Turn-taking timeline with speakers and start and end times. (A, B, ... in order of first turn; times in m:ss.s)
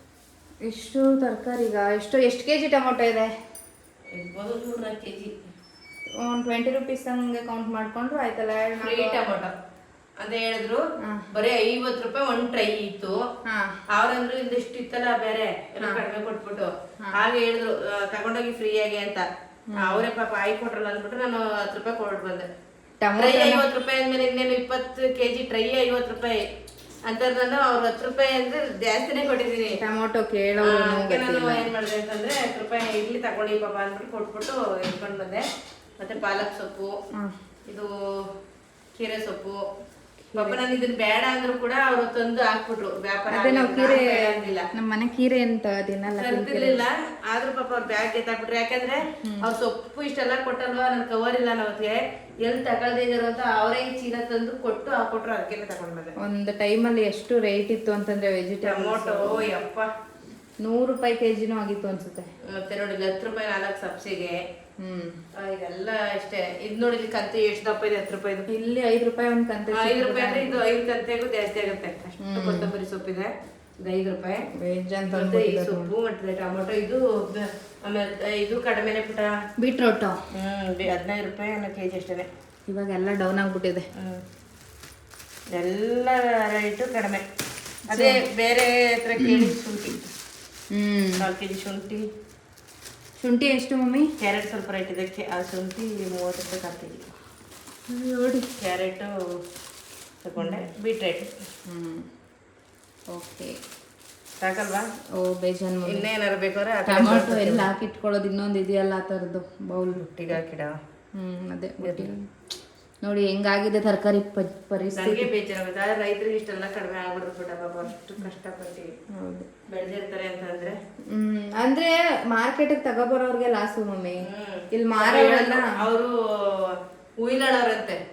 0:00.6-0:03.3 A
0:04.1-0:05.4 B
0:06.2-0:09.2 A
0:08.8-0:09.5 B
0:10.2-0:13.2 B
0:11.0-0:11.3 A
0:13.4-0:13.8 A
0:13.9-0:22.5 B
0:19.7-0:20.0 A
0:23.0-0:23.6 A
0:23.1-0:26.4 B
0:27.0-0:29.8 B
0:29.8-0:31.7 A
0:30.6-0:35.4 B
0:36.0-0:36.9 B
0:37.7-0:38.3 B
0:39.0-0:39.6 B
0:40.2-0:40.6 A
0:40.4-0:44.7 B
0:43.3-0:46.8 A
0:46.1-0:56.1 B
0:49.2-0:49.5 A
0:56.2-0:59.5 A
0:58.6-0:59.9 B
1:00.6-1:02.3 A
1:02.5-1:04.4 B
1:04.8-1:05.2 A
1:05.4-1:08.4 B
1:08.5-1:10.6 A
1:09.7-1:14.4 B
1:12.2-1:12.7 A
1:14.6-1:15.9 A
1:15.1-1:19.3 B
1:19.6-1:20.2 A
1:20.3-1:22.3 B
1:22.7-1:23.8 A
1:24.0-1:24.2 B
1:25.5-1:27.2 B
1:27.9-1:28.2 A
1:27.9-1:30.1 B
1:29.2-1:29.5 A
1:30.7-1:31.2 A
1:31.2-1:32.0 B
1:33.2-1:34.1 A
1:34.2-1:37.1 B
1:37.9-1:38.5 A
1:38.6-1:39.1 B
1:40.2-1:41.3 B
1:41.6-1:42.1 A
1:43.1-1:43.6 A
1:44.4-1:44.9 B
1:45.1-1:46.0 A
1:45.8-1:47.7 B
1:46.8-1:50.0 A
1:49.9-1:50.8 B
1:51.1-1:52.3 A
1:51.8-1:52.1 B
1:53.0-1:55.3 A
1:55.0-1:58.9 B
1:59.1-1:59.5 A
1:59.7-2:00.8 B
2:01.1-2:05.8 A
2:04.2-2:08.0 B